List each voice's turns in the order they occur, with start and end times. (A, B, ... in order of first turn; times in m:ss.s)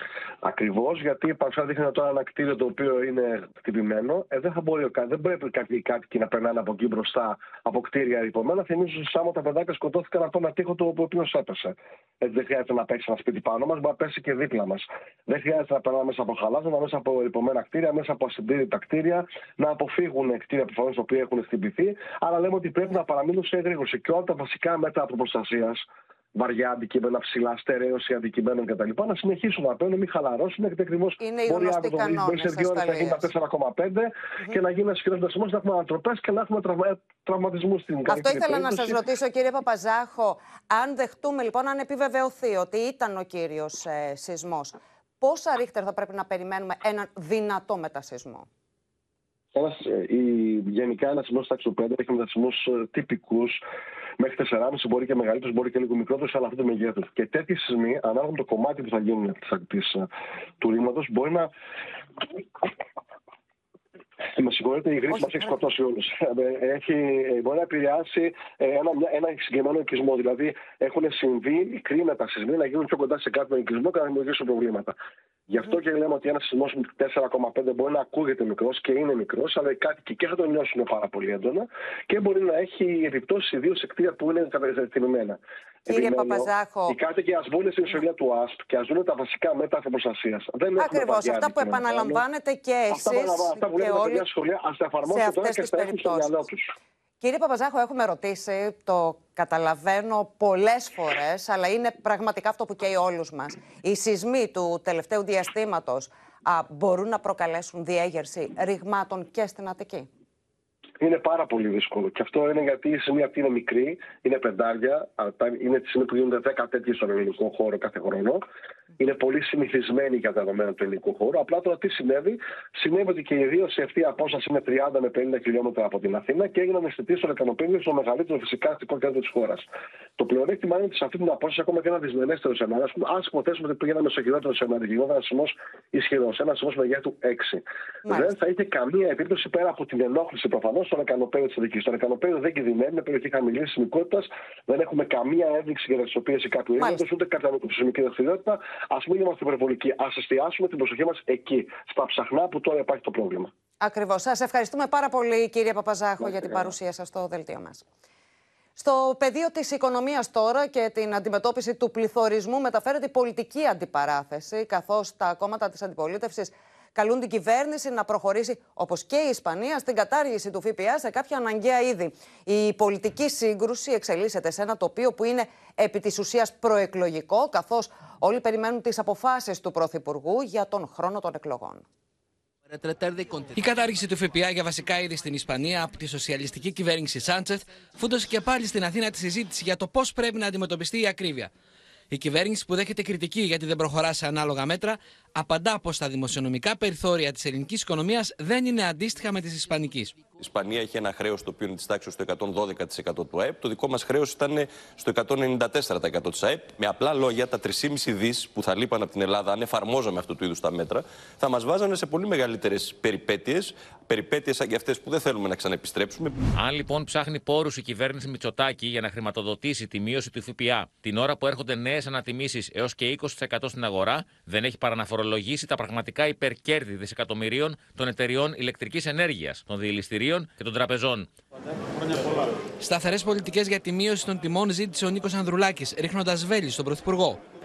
0:00.4-0:25.8 A
0:26.4-0:39.0 A
0:31.2-0:33.3 B
0:38.1-0:48.5 B
0:49.5-0:53.6 A
0:54.2-1:00.1 A
1:00.6-1:01.5 A
1:04.4-1:14.9 A
1:05.1-1:05.5 B
1:15.5-1:32.2 A
1:25.9-1:27.0 B
1:30.8-1:34.2 B
1:32.9-1:36.7 A
1:35.1-1:36.3 B
1:37.2-1:50.1 B
1:51.0-1:58.4 A
1:59.0-2:09.6 A
2:10.2-2:33.5 A
2:18.1-2:18.3 B
2:26.8-2:27.0 B
2:33.8-2:37.8 B
2:36.2-2:36.7 A
2:38.8-3:01.8 B
3:03.5-3:11.5 C
3:12.1-3:20.2 C
3:20.4-3:36.4 D
3:36.6-3:51.3 E
3:52.8-3:57.4 C